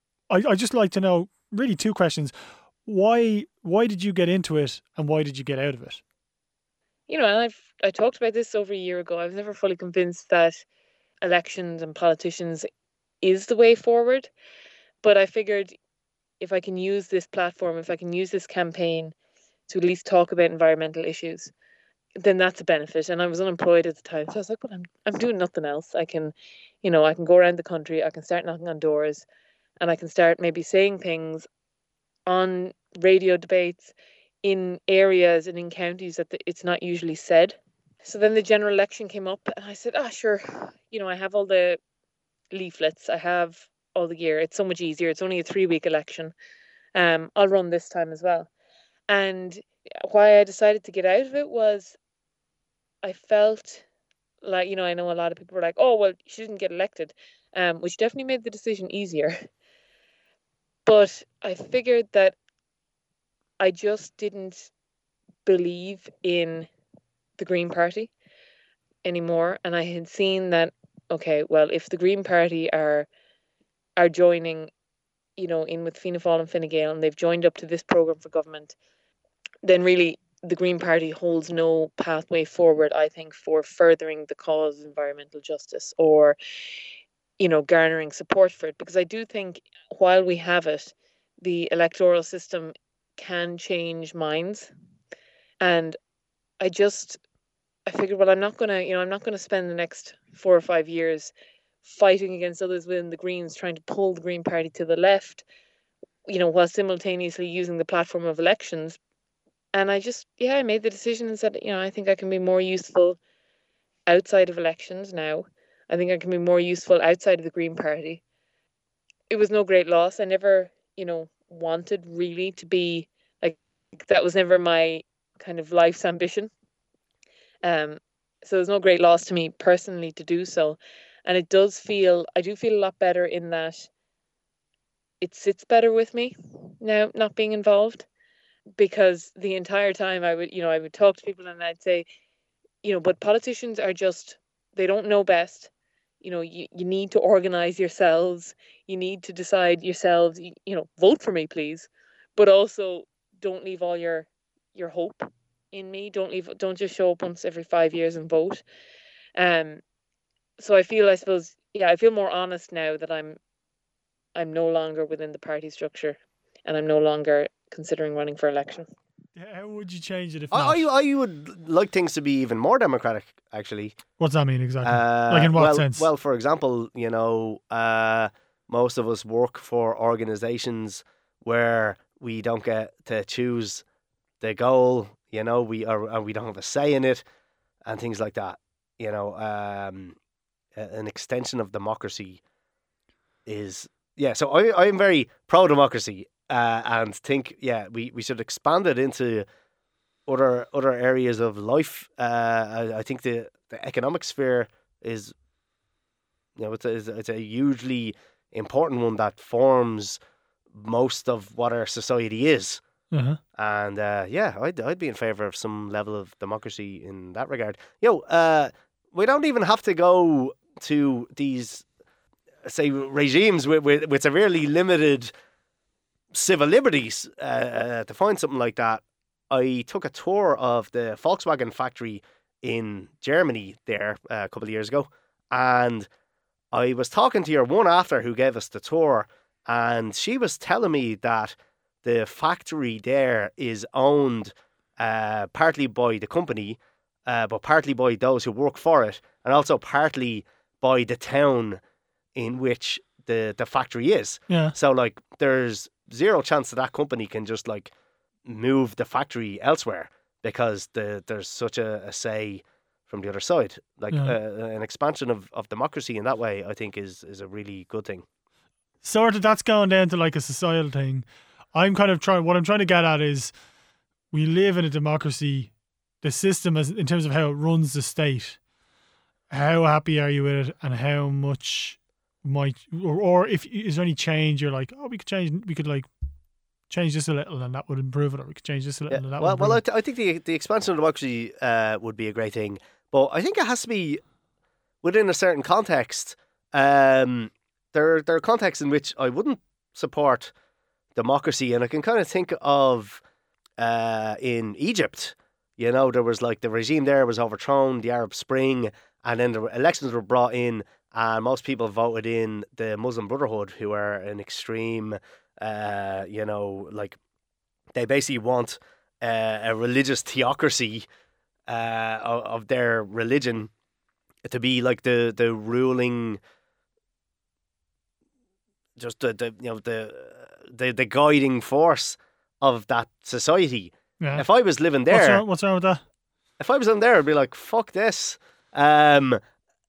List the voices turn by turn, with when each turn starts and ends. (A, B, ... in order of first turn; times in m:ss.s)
0:00.3-0:06.0 A
0:07.1-0:10.6 B
0:11.2-0:12.7 B
0:13.2-0:14.3 B
0:15.0-0:15.8 B
0:16.4-0:19.1 B
0:19.7-0:21.5 B
0:22.2-0:29.2 B
0:29.8-0:31.5 B
0:32.3-0:41.8 B
0:42.5-0:46.3 B
0:47.0-0:48.5 B
0:49.1-0:52.0 B
0:53.0-0:53.8 B
0:54.4-0:59.4 B
1:00.9-1:02.4 B
1:03.6-1:04.7 B
1:05.5-1:06.7 B
1:07.4-1:08.1 B
1:09.0-1:13.1 B
1:14.0-1:14.7 B
1:15.4-1:18.8 B
1:19.6-1:26.4 B
1:27.4-1:34.7 B
1:35.6-1:36.0 B
1:36.6-1:37.2 B
1:37.9-1:41.3 B
1:41.8-1:45.4 B
1:46.3-1:49.0 B
1:49.7-1:53.2 B
1:54.1-1:58.2 B
1:59.3-2:06.5 B
2:07.6-2:13.9 B
2:15.2-2:18.1 B
2:18.8-2:22.1 B
2:22.8-2:25.7 B
2:26.2-2:38.6 B
2:39.4-2:39.8 B
2:40.6-2:43.4 B
2:44.4-2:48.9 B
2:49.4-2:50.9 A
2:50.5-2:54.0 C
2:54.2-2:56.1 A
2:54.8-3:03.8 C
3:04.4-3:07.2 C
3:07.9-3:10.2 C
3:10.8-3:12.4 C
3:13.5-3:19.5 C
3:20.3-3:25.3 C
3:26.6-3:30.2 C
3:30.7-3:32.8 C
3:33.1-3:33.4 A
3:33.6-3:41.8 C
3:42.6-3:45.3 C
3:46.3-3:56.1 C
3:56.7-4:11.8 C
4:12.4-4:17.9 C
4:14.5-4:14.7 A
4:18.4-4:28.2 C
4:29.0-4:33.5 A
4:34.3-4:38.6 A
4:39.5-4:46.1 A
4:46.9-4:49.8 A
4:49.1-4:54.2 C
4:55.0-5:00.5 C
5:01.2-5:03.2 C
5:03.8-5:17.2 C
5:17.9-5:21.1 C
5:21.7-5:23.7 C
5:24.4-5:26.4 C
5:29.0-5:35.4 C
5:35.1-5:36.0 A
5:36.6-5:39.4 C